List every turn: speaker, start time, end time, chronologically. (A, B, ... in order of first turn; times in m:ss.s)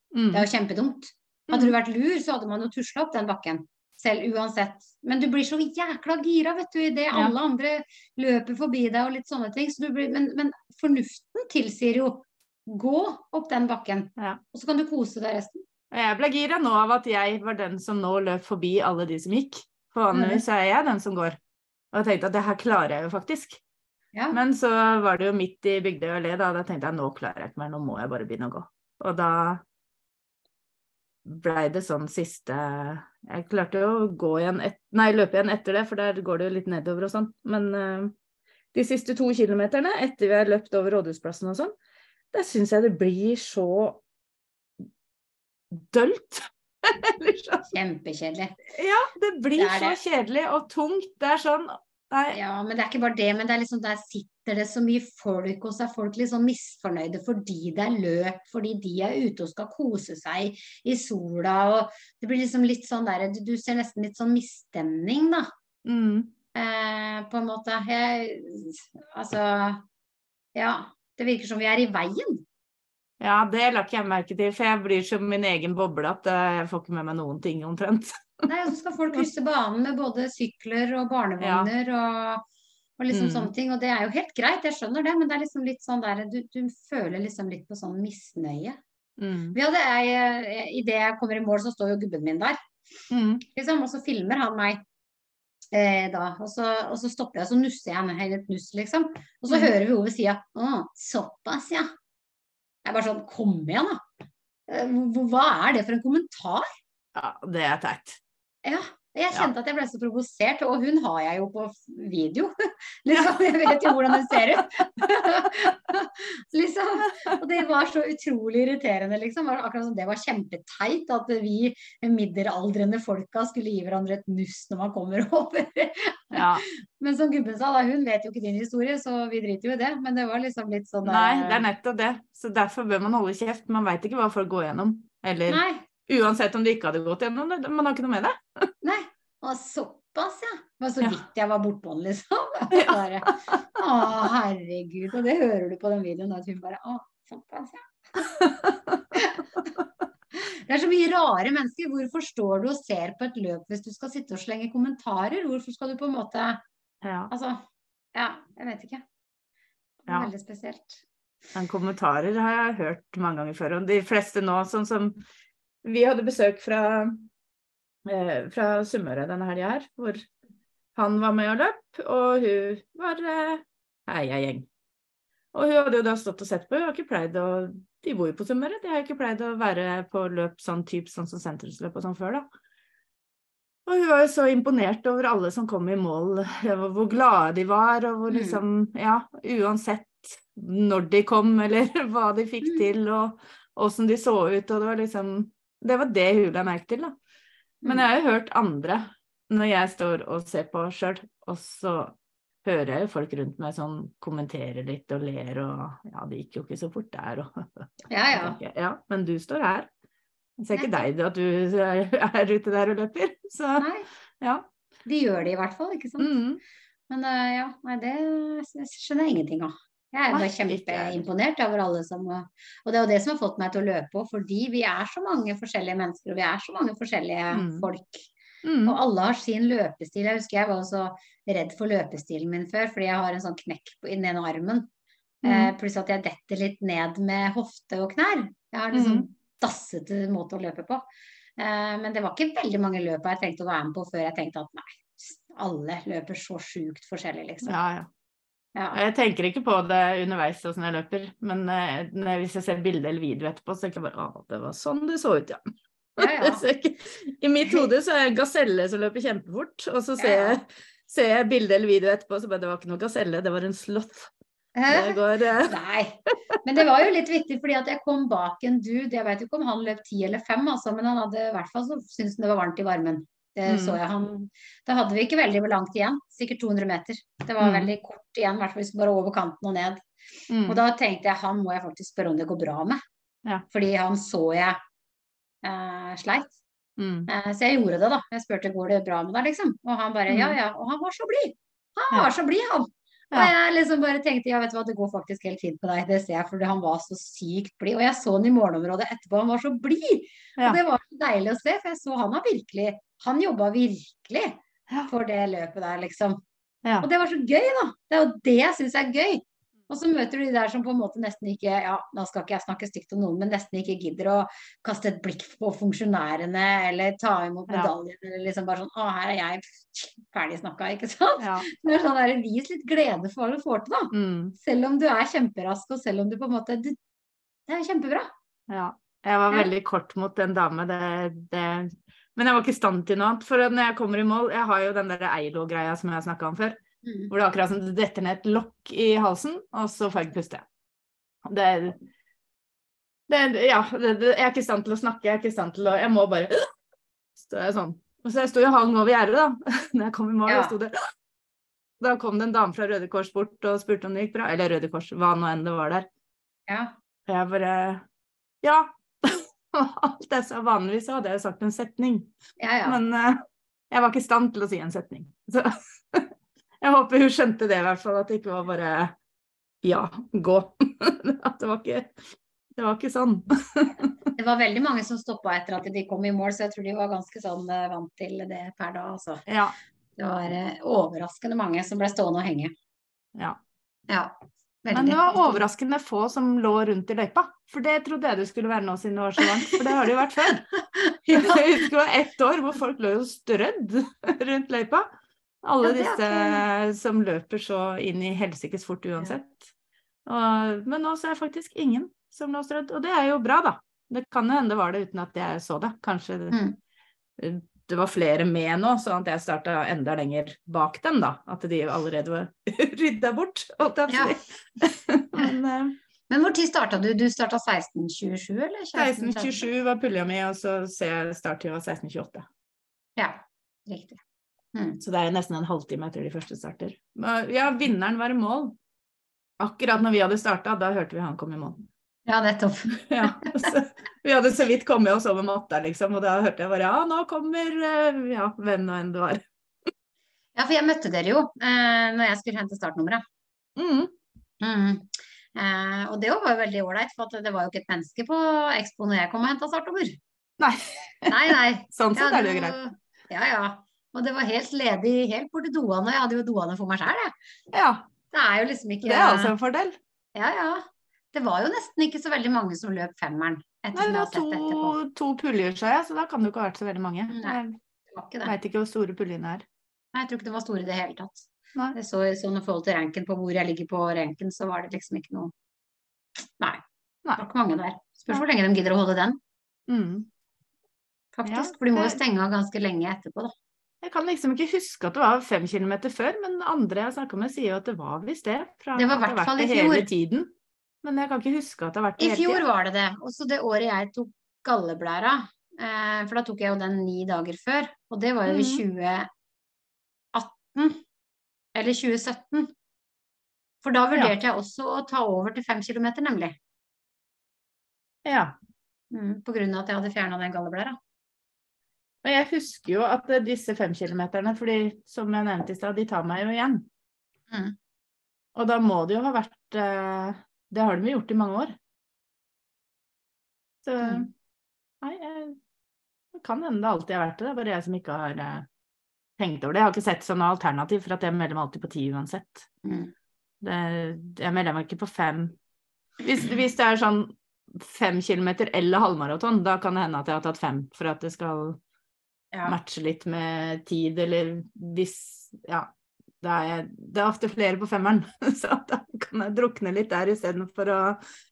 0:00.1-0:00.4 A
0:00.3-0:15.6 B
0:01.5-0:01.7 A
0:15.9-0:21.4 A
0:20.1-0:20.4 B
0:21.9-0:23.6 A
0:24.3-0:29.6 A
0:31.2-0:38.1 A
0:38.7-0:41.7 A
0:42.3-0:44.0 A
0:45.7-0:47.7 A
0:47.7-0:48.6 B
0:48.7-0:52.4 A
0:49.6-0:50.0 B
0:52.3-1:05.5 B
1:05.8-1:06.3 A
1:06.5-1:09.8 B
1:10.5-1:12.4 B
1:13.2-1:18.5 A
1:18.5-1:22.4 B
1:21.4-1:21.7 A
1:23.0-1:28.8 B
1:23.1-1:23.5 A
1:29.2-1:29.6 A
1:29.5-1:32.6 B
1:33.1-1:33.4 A
1:33.5-1:34.8 B
1:35.7-1:41.9 B
1:42.8-1:44.0 B
1:44.7-1:46.6 B
1:47.1-1:48.2 A
1:48.6-2:11.6 B
1:53.7-1:55.1 A
2:06.3-2:06.6 A
2:11.0-2:18.6 A
2:15.5-2:15.8 B
2:18.8-2:28.3 B
2:22.7-2:23.6 A
2:28.2-2:29.8 A
2:29.1-2:29.6 B
2:30.3-2:36.6 B
2:37.0-2:37.3 A
2:37.3-2:37.6 B
2:38.1-2:39.0 B
2:40.1-2:41.0 B
2:41.5-2:45.2 A
2:45.8-2:47.3 A
2:48.0-2:50.3 A
2:51.0-2:54.7 A
2:55.5-3:02.4 A
3:03.8-3:17.1 A
3:08.3-3:08.6 B
3:17.9-3:29.9 A
3:28.1-3:28.6 B
3:30.6-3:33.8 A
3:30.7-3:31.0 B
3:33.8-3:34.1 B
3:34.4-3:34.7 A
3:35.0-3:36.4 B
3:36.2-3:36.6 A
3:37.1-3:48.3 B
3:40.3-3:41.2 A
3:47.5-3:47.9 A
3:48.6-3:49.0 A
3:48.9-3:54.9 B
3:55.4-4:01.0 B
3:55.4-3:55.7 A
3:58.9-3:59.3 A
4:01.6-4:07.7 B
4:07.6-4:08.1 A
4:08.7-4:09.0 B
4:08.9-4:15.6 A
4:16.2-4:16.6 B
4:16.2-4:24.3 A
4:20.2-4:20.6 B
4:24.8-4:40.0 B
4:24.9-4:25.8 A
4:33.7-4:34.0 A
4:37.6-4:37.9 A
4:40.5-4:40.8 A
4:40.7-4:43.0 B
4:43.7-4:44.8 B
4:45.6-4:46.5 B
4:47.0-4:47.3 A
4:47.3-5:06.4 B
4:50.3-4:50.6 A
5:07.0-5:27.0 B
5:21.4-5:21.7 A
5:24.1-5:24.6 A
5:27.7-5:28.3 B
5:28.7-5:36.8 A
5:37.0-5:37.3 B
5:37.3-5:40.6 A
5:41.4-5:42.0 A
5:43.3-5:46.6 A
5:47.4-5:51.0 A
5:50.5-5:50.7 B
5:52.0-5:56.1 A
5:56.7-5:56.9 B
5:57.3-5:58.0 A
5:58.6-6:02.3 A
6:02.6-6:03.0 B
6:02.8-6:06.3 A
6:06.8-6:09.1 A
6:09.8-6:12.2 A
6:12.8-6:14.1 A
6:14.3-6:19.4 B
6:19.5-6:19.8 A
6:20.2-6:22.7 B
6:24.1-6:25.6 B
6:24.9-6:30.6 A
6:30.8-6:31.7 B
6:31.3-6:35.1 A
6:35.6-6:39.7 A
6:35.8-6:36.6 B
6:40.2-6:46.6 A
6:47.4-6:56.0 A
6:54.1-6:54.4 B
6:56.3-6:59.6 B
6:58.9-7:02.4 A
7:03.2-7:04.2 B
7:04.7-7:05.0 B
7:05.0-7:08.8 A
7:09.6-7:11.8 A
7:12.2-7:13.7 B
7:13.0-7:19.4 A
7:20.6-7:23.2 B
7:23.8-7:24.1 A
7:24.6-7:30.2 B
7:30.6-7:32.8 A
7:31.3-7:37.3 B
7:37.7-7:38.0 A
7:38.3-7:39.5 B
7:39.0-7:40.0 A
7:40.3-7:45.0 B
7:43.9-7:47.8 A
7:47.3-7:47.6 B
7:48.1-7:48.5 B
7:48.4-7:49.6 A
7:50.1-7:55.5 B
7:57.4-7:59.4 B
7:59.9-8:00.3 A
8:01.4-8:03.5 B
8:01.4-8:02.2 A
8:04.0-8:10.5 A
8:09.0-8:10.1 B
8:11.0-8:12.6 A
8:12.2-8:19.3 B
8:18.5-8:18.8 A
8:20.3-8:21.0 B
8:21.7-8:22.7 B
8:23.8-8:26.5 B
8:28.2-8:28.5 A
8:29.1-8:31.0 B
8:32.2-8:36.9 A
8:37.5-8:37.7 B
8:38.5-8:41.7 A
8:43.8-8:44.3 A
8:45.0-8:45.6 A
8:46.3-8:48.7 A
8:49.4-8:52.7 A
8:52.8-8:53.1 B
8:53.6-8:55.6 A
8:56.2-9:01.8 A
9:02.5-9:02.8 B
9:02.6-9:11.2 A